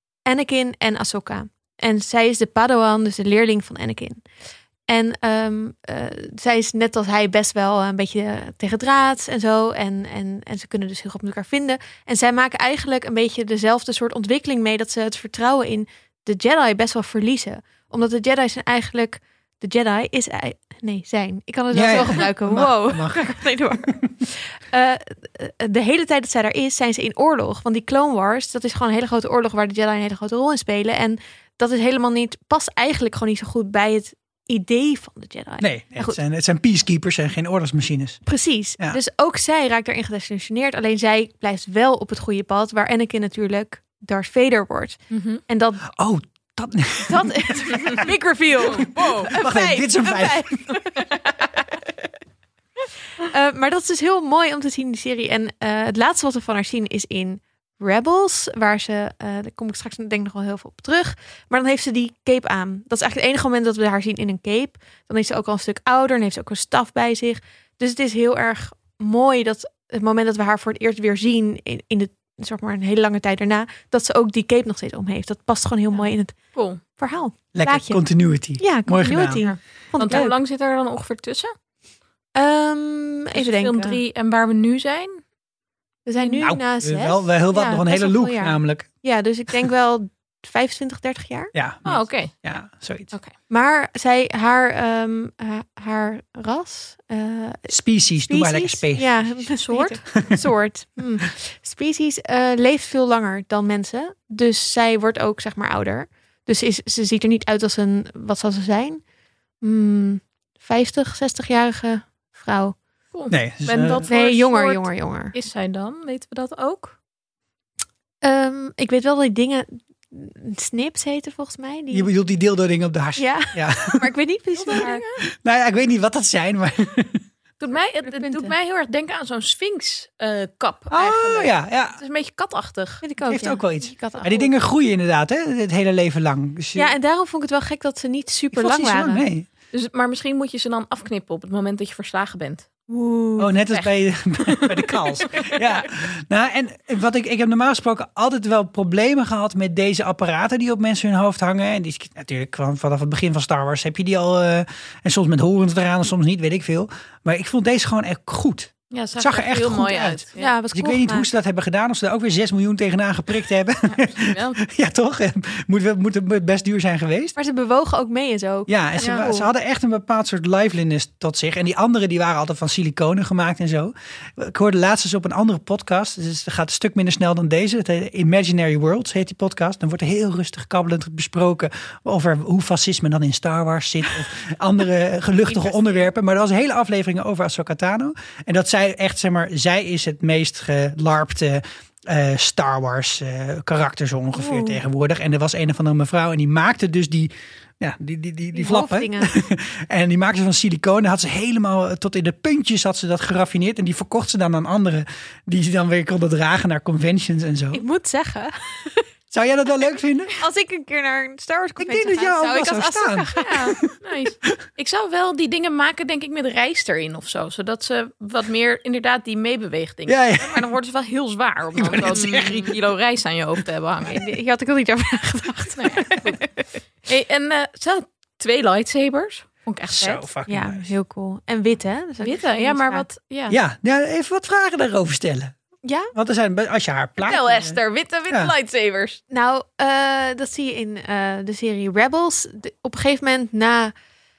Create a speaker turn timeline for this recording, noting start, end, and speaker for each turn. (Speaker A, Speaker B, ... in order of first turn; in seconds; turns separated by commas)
Speaker A: 0.3-4.2, Speaker A: 4.9-36.2, Speaker B: 21.7-24.0, Speaker B: 35.6-38.2, Speaker A: 38.2-45.8, Speaker C: 45.1-45.4, Speaker B: 45.9-48.0, Speaker A: 47.1-51.2, Speaker C: 47.7-48.1, Speaker C: 48.6-49.3, Speaker B: 49.0-50.6, Speaker A: 53.2-78.0, Speaker C: 75.9-76.8, Speaker B: 77.5-79.5, Speaker A: 78.6-80.3, Speaker C: 79.4-81.5, Speaker A: 82.4-84.0, Speaker C: 83.3-85.2, Speaker A: 86.1-91.5, Speaker B: 86.4-88.9, Speaker B: 91.5-93.1, Speaker C: 91.8-92.4, Speaker A: 93.5-97.7, Speaker B: 97.7-99.5, Speaker A: 98.3-109.0, Speaker C: 99.6-100.2, Speaker A: 109.6-112.8, Speaker C: 113.1-117.0, Speaker B: 113.3-114.1, Speaker A: 114.1-115.3, Speaker A: 118.2-122.1, Speaker B: 121.9-127.2, Speaker A: 123.2-125.0, Speaker C: 124.7-125.2, Speaker C: 127.6-133.0, Speaker A: 128.0-128.5, Speaker B: 130.9-132.0, Speaker A: 133.0-134.5, Speaker B: 133.2-136.9, Speaker A: 136.8-139.2, Speaker B: 138.5-139.5, Speaker C: 139.7-142.7, Speaker A: 142.9-143.5, Speaker B: 143.4-167.3, Speaker C: 144.5-145.6, Speaker C: 158.9-160.5, Speaker A: 160.4-161.3, Speaker C: 163.9-164.6, Speaker A: 167.4-169.5, Speaker B: 168.7-207.8, Speaker C: 169.0-169.3, Speaker C: 185.5-186.1, Speaker A: 194.3-194.8, Speaker A: 198.5-199.3, Speaker A: 207.7-209.0, Speaker B: 209.3-210.3, Speaker A: 210.4-213.7, Speaker B: 211.8-213.9, Speaker C: 213.4-224.2, Speaker B: 220.1-220.7, Speaker B: 221.8-222.8, Speaker A: 224.1-226.5, Speaker C: 225.8-226.4, Speaker C: 227.0-230.2, Speaker B: 229.9-230.9, Speaker A: 230.5-233.1, Speaker C: 232.2-233.6, Speaker B: 233.5-235.6, Speaker A: 235.8-236.1, Speaker B: 236.1-237.8, Speaker C: 237.2-239.2, Speaker A: 239.3-243.9